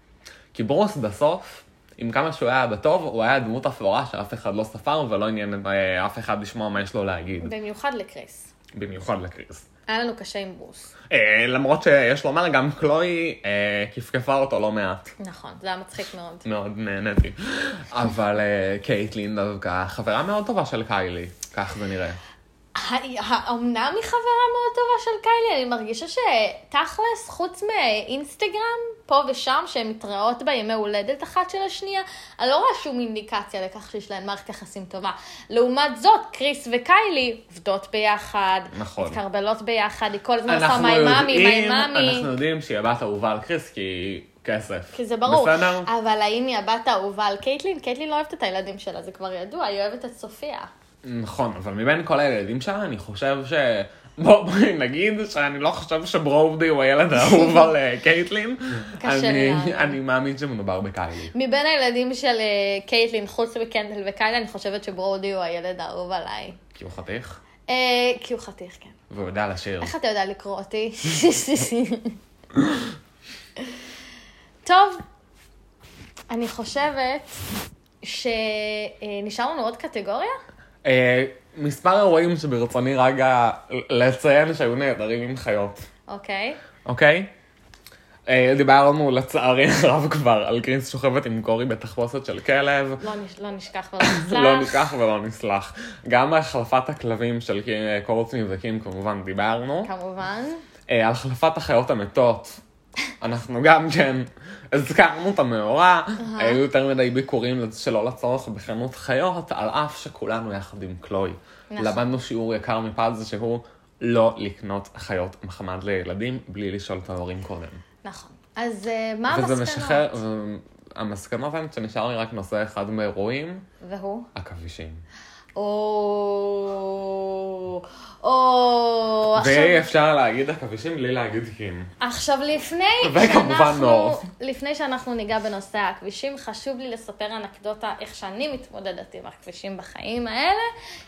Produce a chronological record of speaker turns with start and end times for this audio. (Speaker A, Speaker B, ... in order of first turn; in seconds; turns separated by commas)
Speaker A: 0.5-7.5, Speaker B: 7.4-8.5, Speaker A: 8.7-9.7, Speaker B: 9.9-10.9, Speaker A: 11.1-15.1, Speaker B: 15.2-16.4, Speaker A: 16.4-22.2, Speaker B: 22.7-42.3, Speaker A: 38.7-39.2, Speaker A: 40.5-45.9, Speaker B: 44.9-50.7, Speaker A: 51.0-61.3, Speaker B: 59.0-60.0, Speaker B: 61.3-66.6, Speaker A: 66.7-67.4, Speaker B: 67.7-69.0, Speaker A: 69.1-69.9, Speaker B: 69.8-72.2, Speaker B: 74.6-75.0, Speaker B: 76.3-77.4, Speaker B: 78.0-80.4, Speaker A: 80.8-85.8, Speaker B: 86.1-86.6, Speaker A: 86.8-87.3, Speaker A: 88.3-93.0, Speaker B: 93.0-94.9, Speaker A: 94.0-99.9, Speaker B: 99.8-100.6, Speaker A: 100.9-102.6, Speaker A: 103.2-117.8, Speaker B: 106.2-106.6, Speaker B: 111.7-112.0, Speaker B: 118.0-120.2, Speaker A: 119.3-123.7, Speaker B: 123.8-124.3, Speaker A: 124.3-125.0, Speaker B: 125.5-129.9, Speaker A: 129.3-131.9, Speaker B: 132.0-140.7, Speaker A: 133.0-134.2